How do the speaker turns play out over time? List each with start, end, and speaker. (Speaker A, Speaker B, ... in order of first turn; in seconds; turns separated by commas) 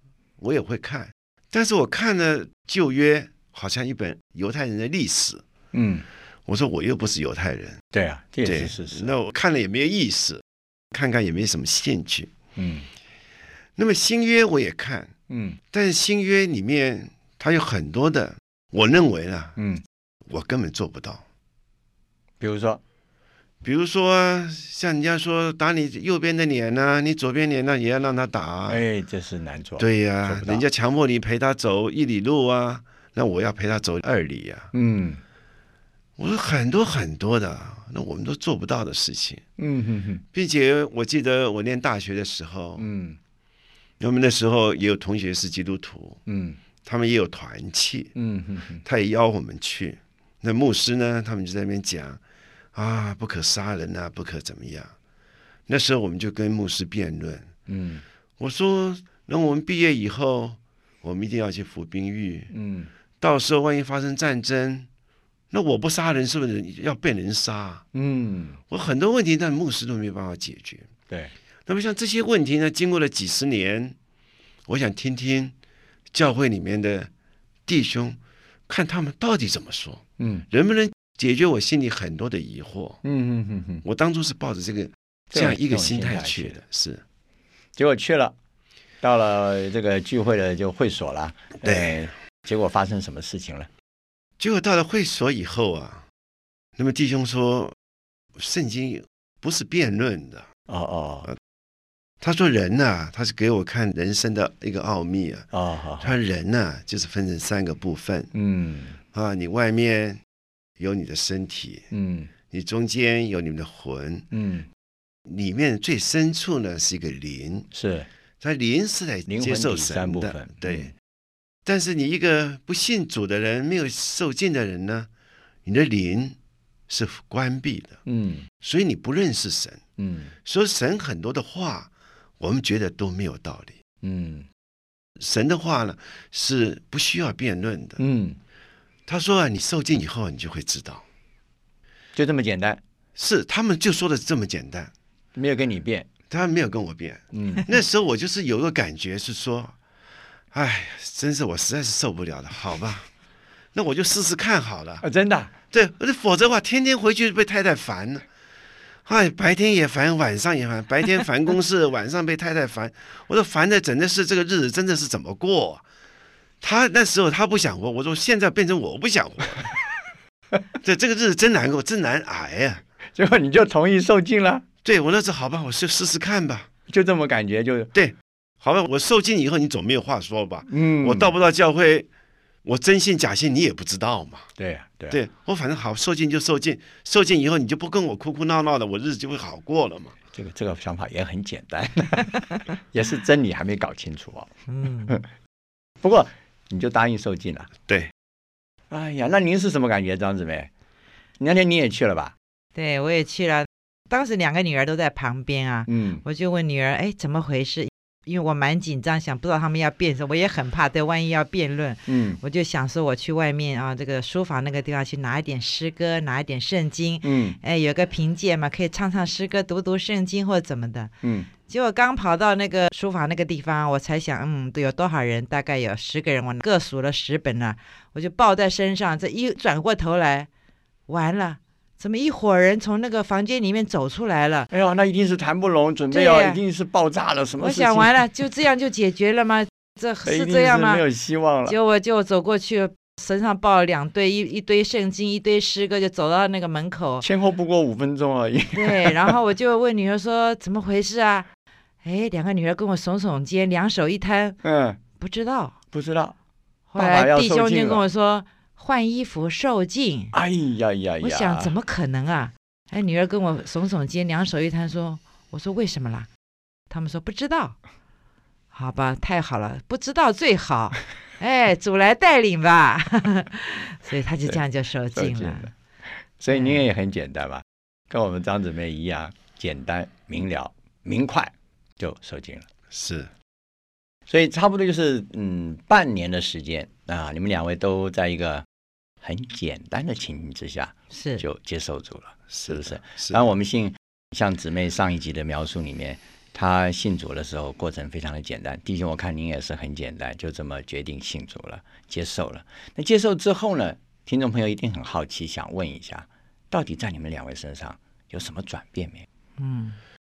Speaker A: 0.4-5.4, Speaker B: 5.7-6.0, Speaker A: 6.5-7.8, Speaker B: 7.9-9.1, Speaker A: 8.4-12.3, Speaker B: 12.6-12.9, Speaker A: 13.8-15.1, Speaker B: 15.3-15.6, Speaker A: 15.7-19.6, Speaker B: 19.6-19.8, Speaker A: 20.3-21.2, Speaker B: 22.4-22.8, Speaker A: 23.6-28.8, Speaker B: 28.7-30.6, Speaker A: 29.8-34.7, Speaker B: 34.7-35.2, Speaker A: 36.2-39.4, Speaker B: 39.6-40.2, Speaker A: 40.3-42.9, Speaker B: 42.8-43.2, Speaker A: 44.0-46.2, Speaker B: 46.3-46.6, Speaker A: 46.8-48.1, Speaker B: 48.2-48.8, Speaker A: 48.9-52.2, Speaker A: 52.7-54.9, Speaker A: 55.7-57.5, Speaker B: 57.7-58.0, Speaker A: 58.4-62.5, Speaker B: 62.5-62.9, Speaker A: 63.2-64.9, Speaker A: 65.5-67.8, Speaker B: 67.9-68.6, Speaker A: 68.7-70.9, Speaker A: 71.7-74.0, Speaker A: 74.7-75.5, Speaker A: 76.1-77.1, Speaker A: 77.7-78.2, Speaker A: 78.7-83.0, Speaker B: 80.2-80.5, Speaker B: 83.0-83.8, Speaker A: 83.8-87.0, Speaker B: 85.3-86.6, Speaker B: 87.8-88.3, Speaker B: 89.0-93.7, Speaker A: 91.6-92.0, Speaker A: 94.4-96.0, Speaker A: 96.8-97.8, Speaker A: 98.4-100.5, Speaker B: 100.7-101.3, Speaker A: 102.2-105.5, Speaker B: 105.5-106.1, Speaker A: 106.0-108.3, Speaker B: 108.3-109.0, Speaker A: 109.1-110.2, Speaker A: 110.8-111.9, Speaker B: 111.9-112.3, Speaker A: 112.5-114.3, Speaker B: 114.3-114.7, Speaker A: 115.3-117.7, Speaker B: 117.7-118.1, Speaker A: 118.4-120.9, Speaker B: 119.3-120.9, Speaker A: 121.7-125.1, Speaker A: 125.7-126.4, Speaker A: 126.9-128.0, Speaker B: 128.1-128.5, Speaker A: 128.6-129.8, Speaker B: 130.0-130.3, Speaker A: 130.4-133.8, Speaker B: 134.0-134.5, Speaker A: 135.2-138.0, Speaker B: 138.0-138.4, Speaker A: 139.1-141.0, Speaker B: 142.2-142.8, Speaker A: 143.2-144.9, Speaker B: 145.3-146.1, Speaker A: 146.3-149.8, Speaker B: 147.3-147.7, Speaker A: 150.5-153.1, Speaker A: 153.7-155.1, Speaker B: 155.0-155.5, Speaker A: 155.7-158.3, Speaker A: 159.1-165.8, Speaker A: 166.6-169.8, Speaker A: 170.8-172.8, Speaker B: 173.2-174.6, Speaker A: 174.8-176.7, Speaker B: 176.9-177.9, Speaker A: 177.9-182.1, Speaker B: 180.7-181.3, Speaker A: 182.7-184.5, Speaker B: 184.6-185.2, Speaker A: 185.1-190.2, Speaker B: 190.3-194.5, Speaker C: 194.7-195.1, Speaker B: 196.0-197.7, Speaker B: 198.9-200.7, Speaker B: 201.4-202.3, Speaker C: 202.8-221.1, Speaker B: 205.9-206.2, Speaker B: 212.1-212.4, Speaker B: 217.2-217.6, Speaker B: 221.2-221.5, Speaker C: 221.7-230.5, Speaker C: 231.1-234.7, Speaker B: 234.7-238.2, Speaker C: 236.1-236.6, Speaker C: 237.6-241.0, Speaker B: 240.2-241.8, Speaker C: 241.7-247.2, Speaker B: 247.2-249.4, Speaker C: 248.7-251.5, Speaker C: 252.0-254.6, Speaker B: 254.6-255.0, Speaker C: 255.2-255.8, Speaker B: 255.9-256.4, Speaker C: 256.9-260.3, Speaker B: 257.0-258.0, Speaker B: 260.3-261.7, Speaker C: 261.2-266.3, Speaker C: 266.9-267.8, Speaker C: 268.7-275.7, Speaker B: 275.1-275.7, Speaker B: 276.4-282.7, Speaker C: 276.5-276.8, Speaker A: 282.9-283.3, Speaker B: 284.3-288.7, Speaker B: 289.2-309.3, Speaker C: 291.1-291.4, Speaker A: 292.5-293.4, Speaker C: 309.6-310.0